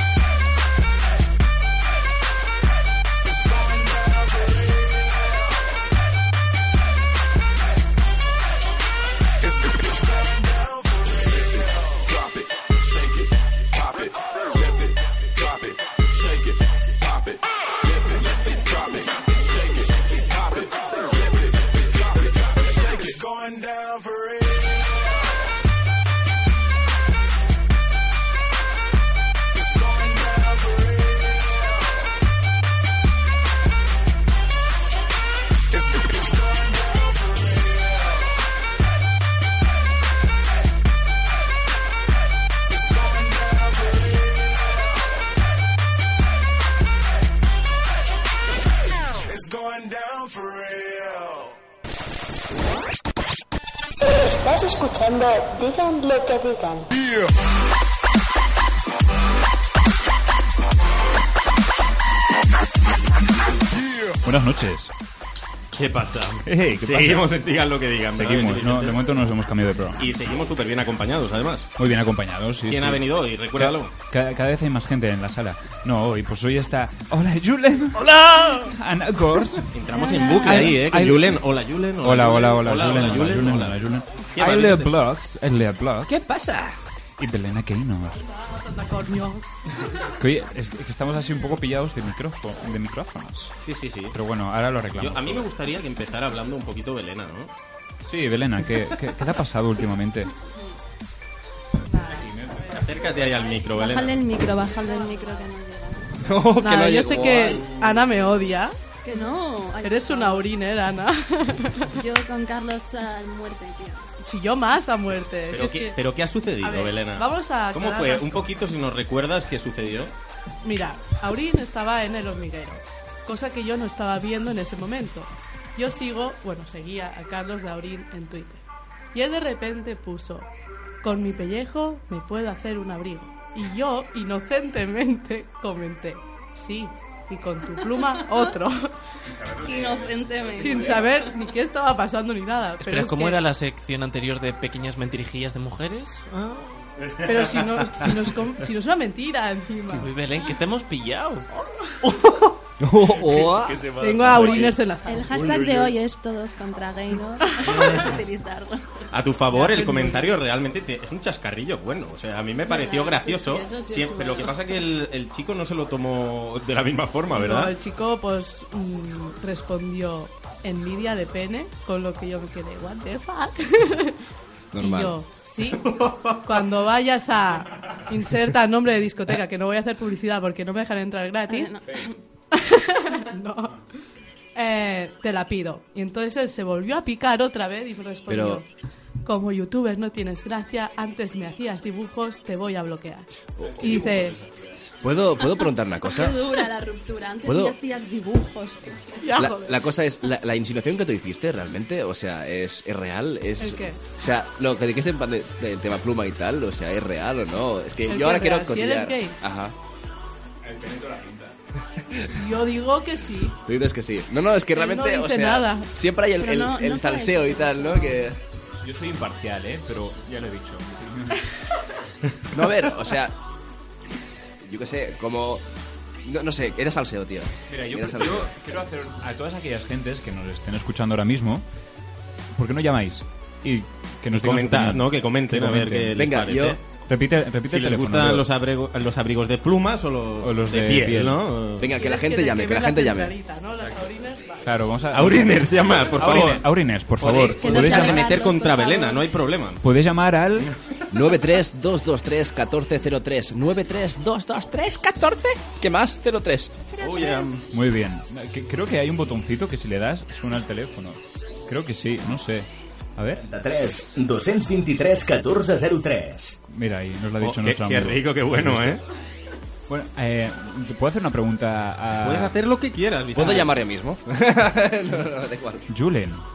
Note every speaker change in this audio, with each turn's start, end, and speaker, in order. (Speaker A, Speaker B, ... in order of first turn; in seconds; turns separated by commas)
Speaker A: 3.2-5.5, Speaker A: 9.4-25.2, Speaker A: 29.5-31.9, Speaker A: 35.7-38.3, Speaker A: 42.7-44.9, Speaker A: 49.2-51.5, Speaker B: 54.0-56.9, Speaker C: 64.2-64.9, Speaker D: 65.7-69.1, Speaker C: 66.4-67.3, Speaker C: 68.1-70.1, Speaker D: 70.0-71.7, Speaker C: 71.8-79.7, Speaker D: 72.7-73.9, Speaker E: 78.0-78.7, Speaker D: 79.7-83.8, Speaker F: 80.0-80.6, Speaker C: 80.4-81.4, Speaker C: 82.0-86.2, Speaker D: 84.3-84.9, Speaker G: 86.1-86.8, Speaker C: 87.2-88.2, Speaker H: 88.3-89.4, Speaker C: 90.2-93.5, Speaker D: 93.6-94.2, Speaker C: 94.1-95.5, Speaker D: 95.0-97.5, Speaker C: 98.0-100.3, Speaker F: 101.9-106.1, Speaker C: 102.0-102.8, Speaker D: 102.7-104.2, Speaker H: 104.6-105.4, Speaker G: 106.2-107.8, Speaker H: 106.6-108.7, Speaker C: 107.6-108.0, Speaker F: 109.0-110.5, Speaker H: 109.8-111.9, Speaker F: 112.0-114.1, Speaker H: 114.2-116.0, Speaker D: 115.5-120.1, Speaker H: 116.6-118.4, Speaker H: 120.6-128.6, Speaker H: 129.1-130.5, Speaker H: 131.0-138.9, Speaker F: 137.8-138.5, Speaker C: 139.4-140.6, Speaker F: 139.6-141.2, Speaker H: 140.6-143.4, Speaker E: 142.8-146.9, Speaker D: 147.2-148.1, Speaker H: 147.2-150.1, Speaker E: 149.9-151.5, Speaker E: 152.0-152.5, Speaker G: 152.8-153.9, Speaker E: 153.3-154.6, Speaker H: 154.0-155.5, Speaker F: 154.6-158.9, Speaker D: 157.6-158.1, Speaker D: 159.1-167.7, Speaker H: 159.5-160.3, Speaker F: 162.6-164.7, Speaker H: 167.3-174.1, Speaker G: 174.7-175.2, Speaker H: 174.8-175.9, Speaker D: 175.8-176.4, Speaker H: 176.4-181.8, Speaker F: 181.5-182.1, Speaker C: 181.8-182.1, Speaker H: 182.5-183.7, Speaker H: 184.5-188.7, Speaker G: 188.3-188.6, Speaker H: 189.2-194.4, Speaker G: 193.6-193.8, Speaker C: 193.6-194.8, Speaker G: 195.0-196.4, Speaker F: 196.0-198.8, Speaker G: 197.4-197.8, Speaker H: 199.2-199.8, Speaker G: 199.4-209.7, Speaker H: 203.6-204.1, Speaker H: 208.1-209.4, Speaker C: 210.6-211.5, Speaker H: 212.3-213.6, Speaker G: 213.6-218.4, Speaker H: 214.7-216.0, Speaker F: 216.4-218.3, Speaker C: 218.8-221.5, Speaker G: 222.5-223.3, Speaker G: 224.6-225.6, Speaker G: 226.2-228.5, Speaker C: 227.7-231.6, Speaker C: 232.5-236.1, Speaker D: 234.3-236.8, Speaker G: 236.2-236.8, Speaker C: 237.1-238.4, Speaker D: 237.7-241.9, Speaker C: 240.4-241.4, Speaker G: 241.8-243.3, Speaker H: 241.9-244.7, Speaker C: 244.6-248.3, Speaker D: 245.1-246.7, Speaker D: 247.2-249.8, Speaker F: 247.6-249.3, Speaker C: 249.8-250.7, Speaker D: 250.6-251.0, Speaker G: 251.1-256.7, Speaker D: 257.0-257.6, Speaker C: 257.7-263.4, Speaker I: 263.4-266.6, Speaker C: 266.7-269.0, Speaker D: 267.4-269.0, Speaker C: 269.9-272.5, Speaker D: 272.2-273.8, Speaker G: 273.3-275.8, Speaker C: 275.9-276.4